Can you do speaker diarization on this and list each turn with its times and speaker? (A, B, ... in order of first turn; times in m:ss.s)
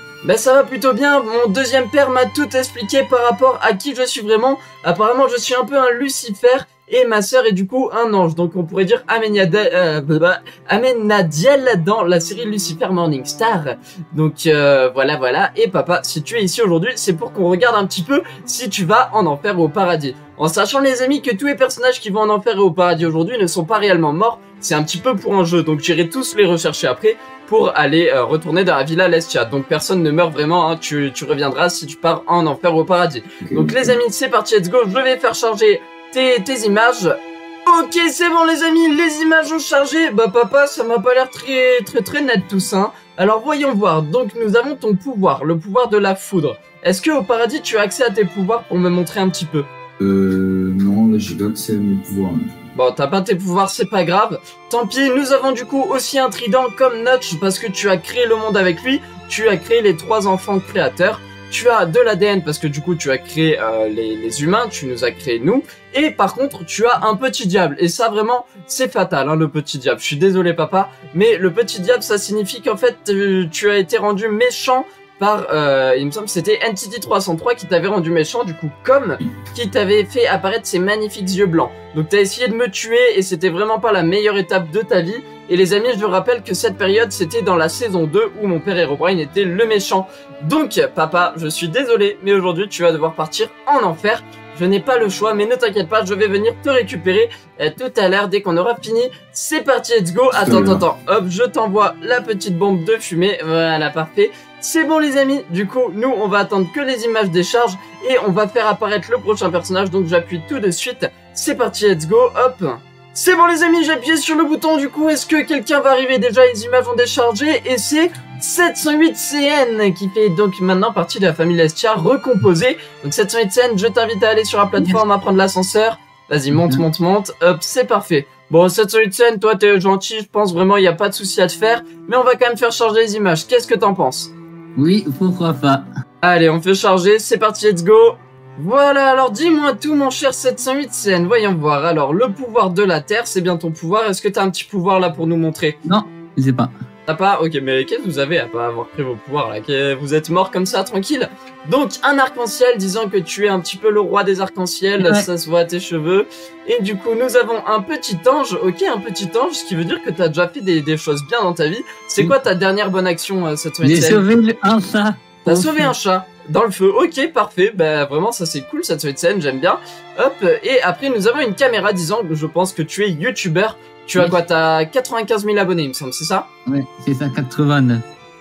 0:00.2-0:49.7 A
0:33.4-0:34.0 B
0:50.0-0:52.4 B
0:52.8-2:14.3 A
1:40.3-1:40.8 B
2:06.5-2:06.8 C
2:14.8-2:15.9 C
2:16.2-2:25.8 A
2:25.8-2:26.7 C
2:27.1-2:44.3 A
2:35.0-2:35.3 C
2:43.8-2:45.9 C
2:45.4-2:56.5 A
2:56.7-2:58.0 C